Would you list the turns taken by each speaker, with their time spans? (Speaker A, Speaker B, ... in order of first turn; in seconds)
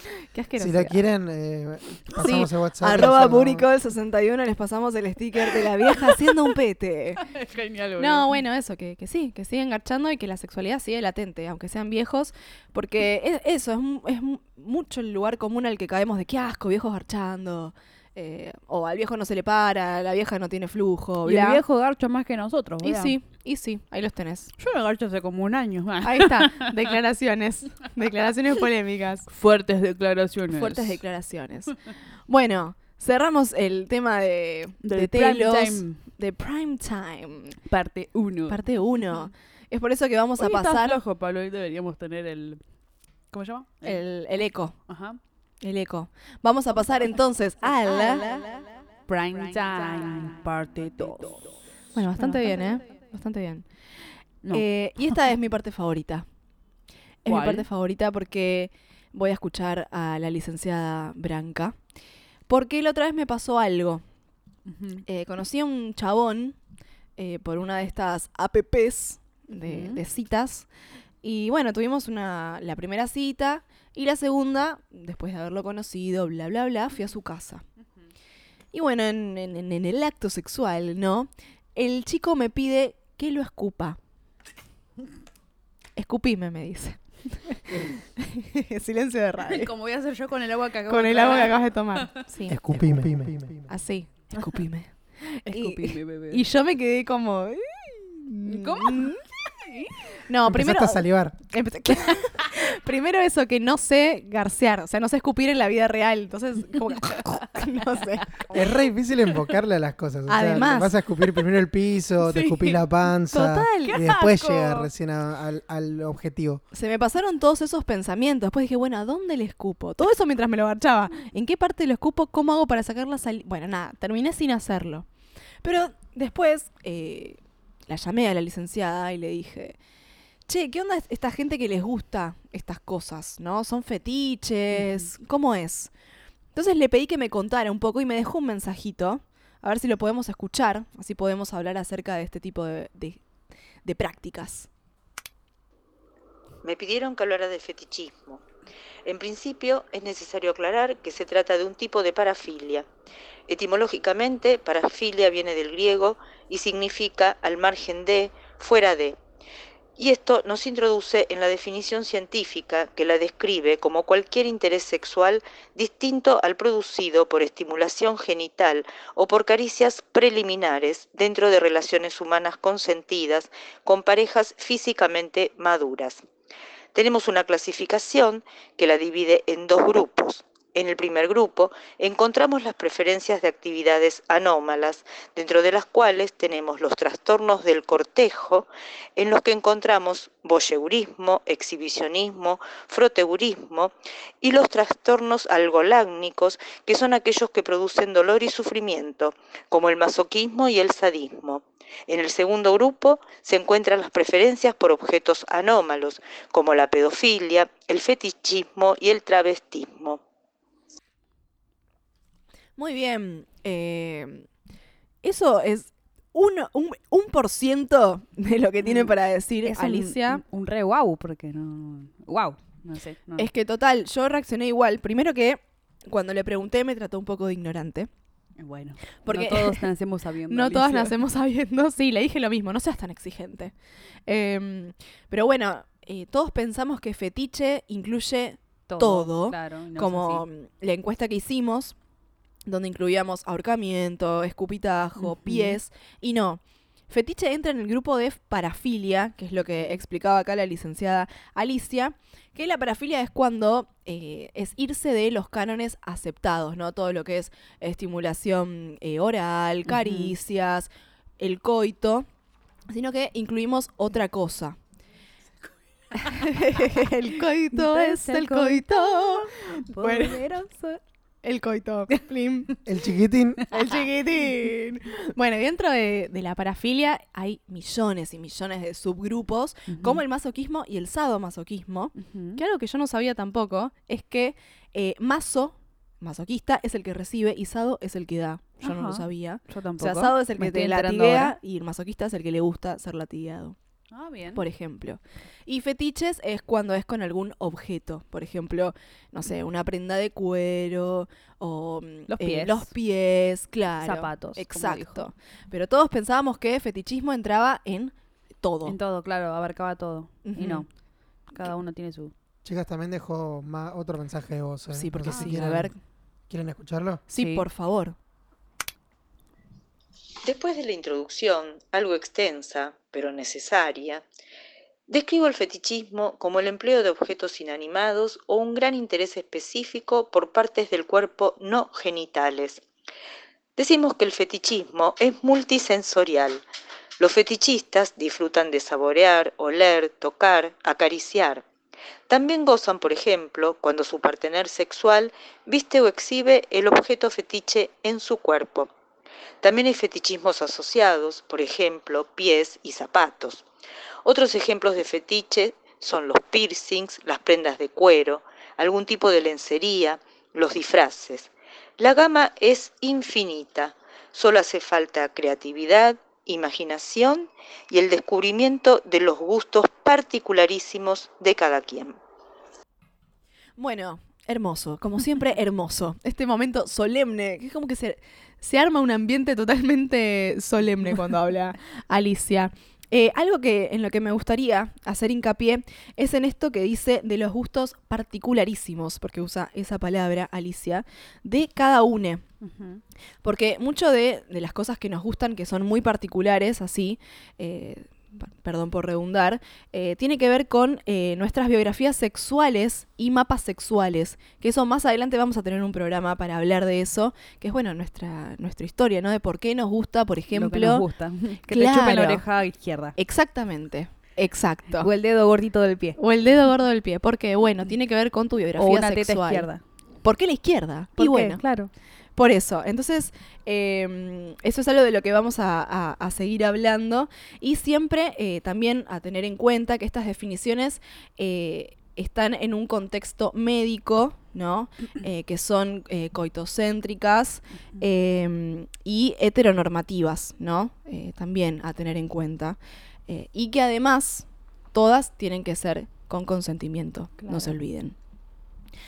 Speaker A: 0.3-1.0, 2.2-7.2, 8.0-21.6, 22.8-24.5, 26.0-29.2, 30.5-37.6, 38.5-41.0, 43.8-44.8, 45.6-48.6, 51.9-53.6, 54.5-56.2, 57.2-61.8, 62.5-64.0, 65.0-66.6, 67.2-70.7, 71.2-77.6, 78.7-84.0, 86.0-89.7, 90.9-92.6, 93.7-99.2, 100.3-108.5, 110.3-110.9, 113.3-113.9, 116.7-125.0, 125.6-129.8, 130.5-135.9, 136.5-143.2, 143.8-144.7, 212.8-214.5, 215.2-220.4, 223.4-228.1, 229.2-229.8, 230.5-233.7, 234.3-241.9, 242.7-262.3, 262.9-264.8, 266.2-270.4, 271.4-272.7, 273.7-293.8, 294.5-308.9, 310.4-310.9, 314.9-316.0, 317.3-318.1, 373.8-392.4, 393.4-411.0, 411.7-412.4, 413.2-415.1, 416.2-419.7, 420.2-421.6, 422.4-448.1
Speaker B: 0.6-3.7, 92.5-93.6, 100.5-101.4, 108.5-116.6, 272.9-273.7, 312.6-315.9, 316.5-317.2
Speaker C: 5.8-6.4, 7.2-8.3, 21.2-23.1, 24.6-26.7, 29.3-31.0, 34.8-36.0, 37.6-38.6, 40.4-42.6, 43.3-44.0, 44.9-45.2, 49.1-51.5, 52.2-52.5, 57.2-57.7, 64.7-65.0, 69.6-70.0, 89.5-92.2, 95.5-96.4, 98.4-99.9, 112.2-112.8, 113.4-114.9, 134.7-135.1, 218.8-219.1, 219.6-223.5, 228.6-231.1, 238.9-240.4, 245.2-245.8, 259.9-260.3, 267.7-271.0, 279.9-280.2, 282.1-282.6, 288.8-291.6, 294.1-294.6, 302.3-302.9, 304.0-305.2, 308.8-310.9, 311.5-312.3, 317.3-317.7, 392.6-393.0, 410.5-413.1, 415.0-416.2, 418.8-419.8, 421.2-421.9, 447.4-447.8
Speaker D: 146.6-148.4, 149.0-152.9, 153.5-159.2, 160.0-176.2, 176.9-210.2, 320.4-324.2, 325.1-332.8, 333.8-336.6, 337.2-341.6, 342.3-348.9, 349.6-353.6, 354.2-372.2